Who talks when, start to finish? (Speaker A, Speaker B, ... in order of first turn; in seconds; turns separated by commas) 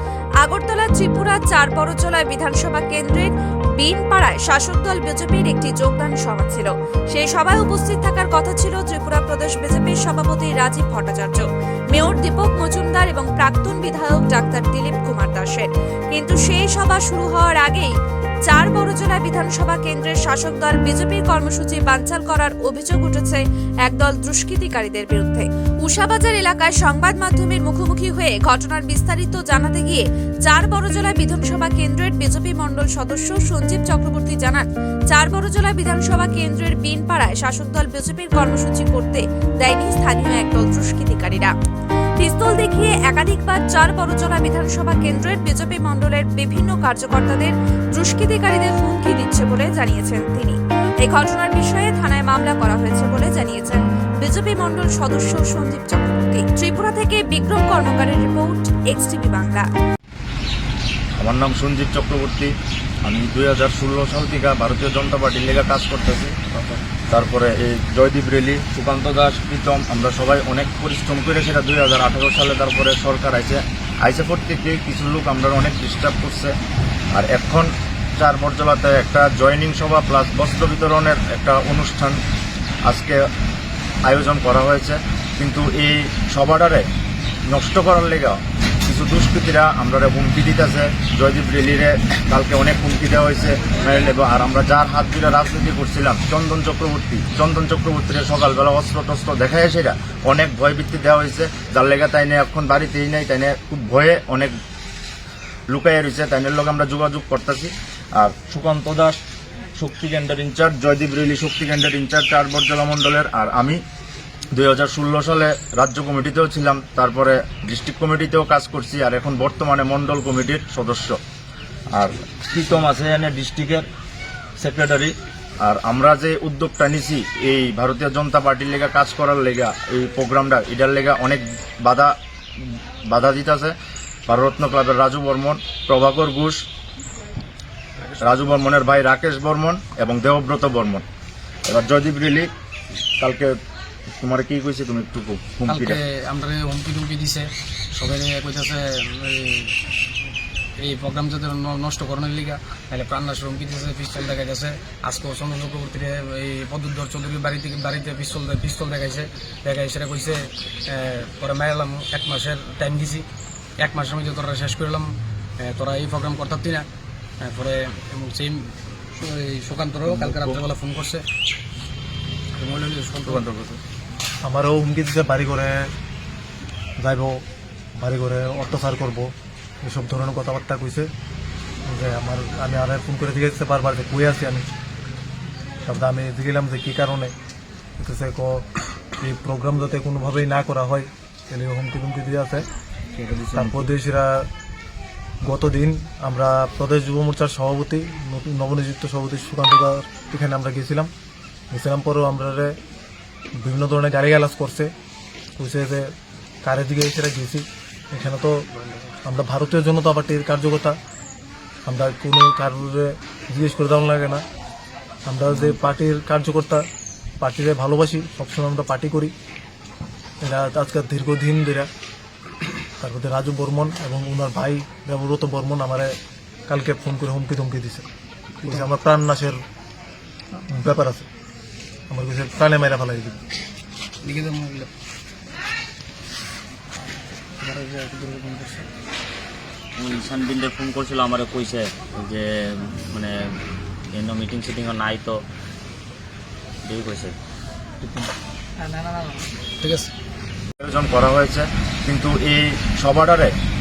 Speaker A: 0.4-17.9, Speaker A: 18.5-41.5, Speaker A: 42.2-59.7, Speaker B: 61.2-62.5, Speaker B: 63.0-76.5, Speaker B: 77.2-82.2, Speaker B: 82.8-83.2, Speaker B: 84.0-86.8, Speaker B: 87.5-104.5, Speaker B: 105.7-109.2, Speaker B: 109.8-113.8, Speaker B: 114.5-121.2, Speaker B: 121.9-123.9, Speaker B: 124.6-132.1, Speaker B: 133.1-133.8, Speaker B: 134.3-136.6, Speaker C: 138.1-138.6, Speaker B: 138.2-141.0, Speaker B: 141.7-142.5, Speaker B: 143.2-143.6, Speaker B: 144.2-146.0, Speaker C: 145.7-149.8, Speaker C: 150.8-163.3, Speaker C: 163.8-166.9, Speaker C: 167.4-171.2, Speaker B: 170.1-170.6, Speaker C: 172.6-173.4, Speaker B: 173.3-173.8, Speaker D: 174.4-175.9, Speaker D: 177.0-177.4, Speaker D: 178.0-179.3, Speaker D: 179.8-181.1, Speaker D: 181.9-184.7, Speaker D: 185.8-187.3, Speaker D: 188.0-188.7, Speaker D: 189.2-192.7, Speaker E: 193.2-193.9, Speaker D: 193.5-194.5, Speaker D: 195.5-201.1, Speaker D: 201.7-202.8, Speaker D: 203.6-204.9, Speaker D: 205.6-206.1, Speaker D: 206.6-208.7, Speaker C: 208.7-209.1, Speaker D: 209.2-211.0, Speaker D: 211.9-214.4, Speaker D: 215.3-216.8, Speaker C: 215.5-215.8, Speaker D: 217.4-219.3, Speaker D: 220.4-221.9, Speaker D: 223.0-226.2, Speaker D: 226.7-228.1, Speaker D: 228.6-229.6, Speaker D: 230.7-231.3, Speaker D: 232.1-233.4, Speaker C: 234.2-234.9, Speaker C: 237.6-238.9, Speaker E: 240.0-243.6, Speaker E: 244.1-245.4, Speaker E: 246.8-247.4, Speaker C: 248.9-250.1, Speaker B: 250.8-253.5